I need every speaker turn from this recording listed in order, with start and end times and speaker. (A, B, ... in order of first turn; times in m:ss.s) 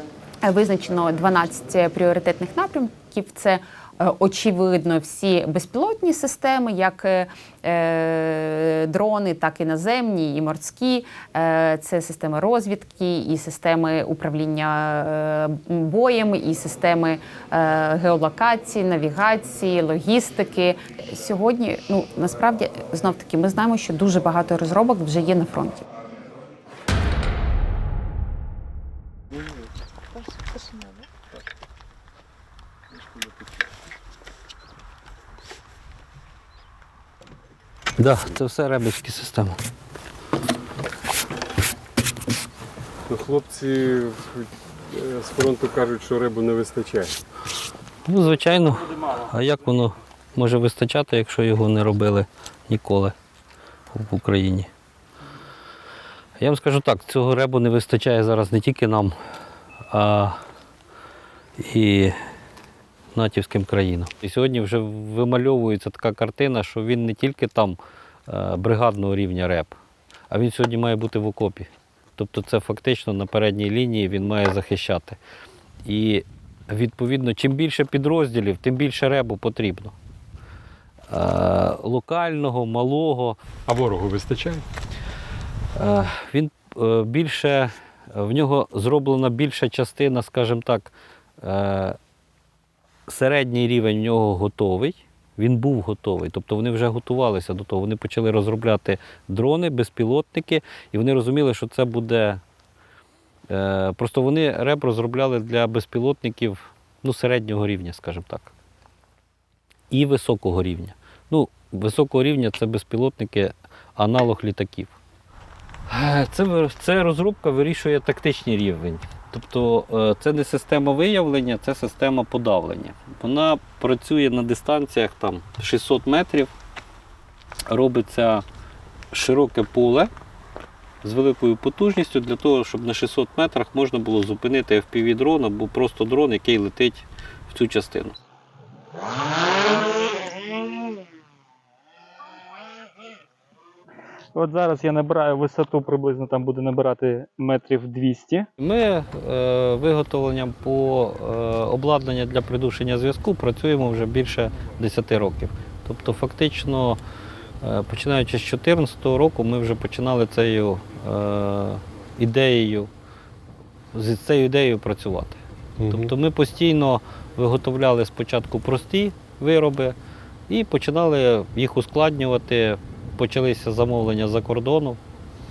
0:00.4-0:25.9 A
0:38.0-0:39.6 B
0:43.1-0:47.2 C
0:48.1-0:53.1 B
0:53.9-0:54.7 B
0:56.4-0:59.1 B
0:59.9-1:00.4 B
1:01.6-1:02.1 B
1:03.1-1:09.7 B
1:10.3-1:15.2 B
1:15.8-1:19.9 B
1:21.1-1:23.4 B
1:23.7-1:24.6 C
1:25.8-1:32.0 B
1:33.1-1:42.4 B
1:43.5-1:48.5 B
1:49.9-1:55.0 B
1:55.9-2:06.5 B
2:07.7-2:08.4 B
2:09.1-2:10.1 B
2:11.0-2:18.2 B
2:24.3-2:28.5 D
2:28.6-2:37.0 B
2:37.6-2:42.9 B
2:43.9-2:50.0 B
2:45.8-2:46.1 C
2:50.5-2:55.0 B